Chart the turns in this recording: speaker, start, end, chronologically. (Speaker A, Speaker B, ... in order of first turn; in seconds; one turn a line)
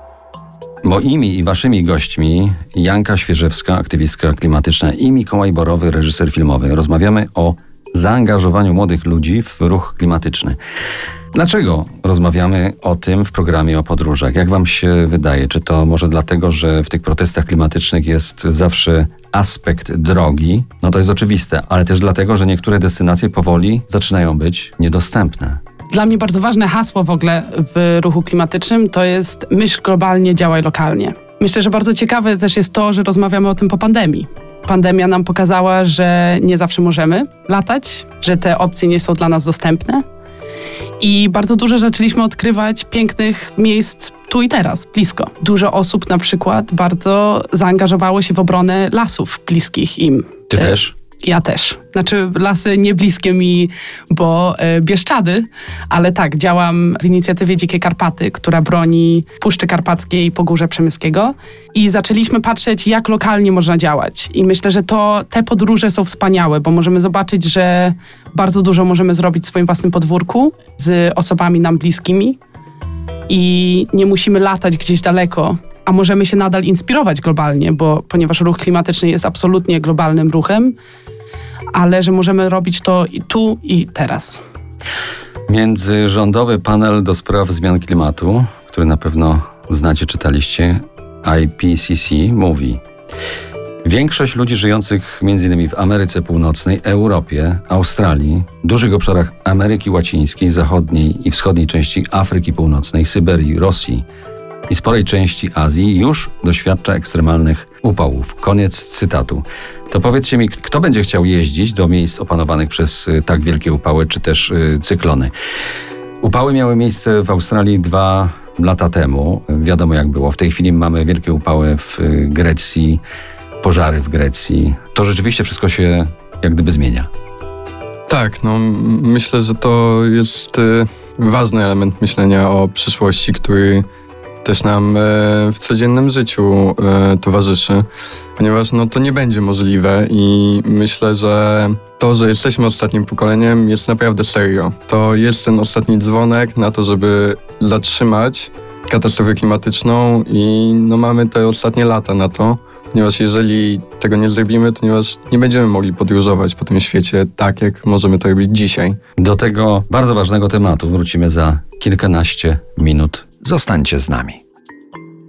Speaker A: 0.8-10.6
Speaker A: 11.3-25.6
Speaker B: 25.9-40.0
Speaker B: 41.0-72.4
Speaker A: 50.5-50.9
Speaker B: 73.3-80.8
Speaker B: 81.7-84.4
Speaker A: 85.5-92.8
Speaker A: 93.8-104.0
Speaker A: 104.7-115.3
Speaker A: 116.2-123.0
Speaker A: 123.6-127.1
Speaker C: 128.1-133.8
Speaker C: 134.4-159.0
Speaker A: 159.2-164.4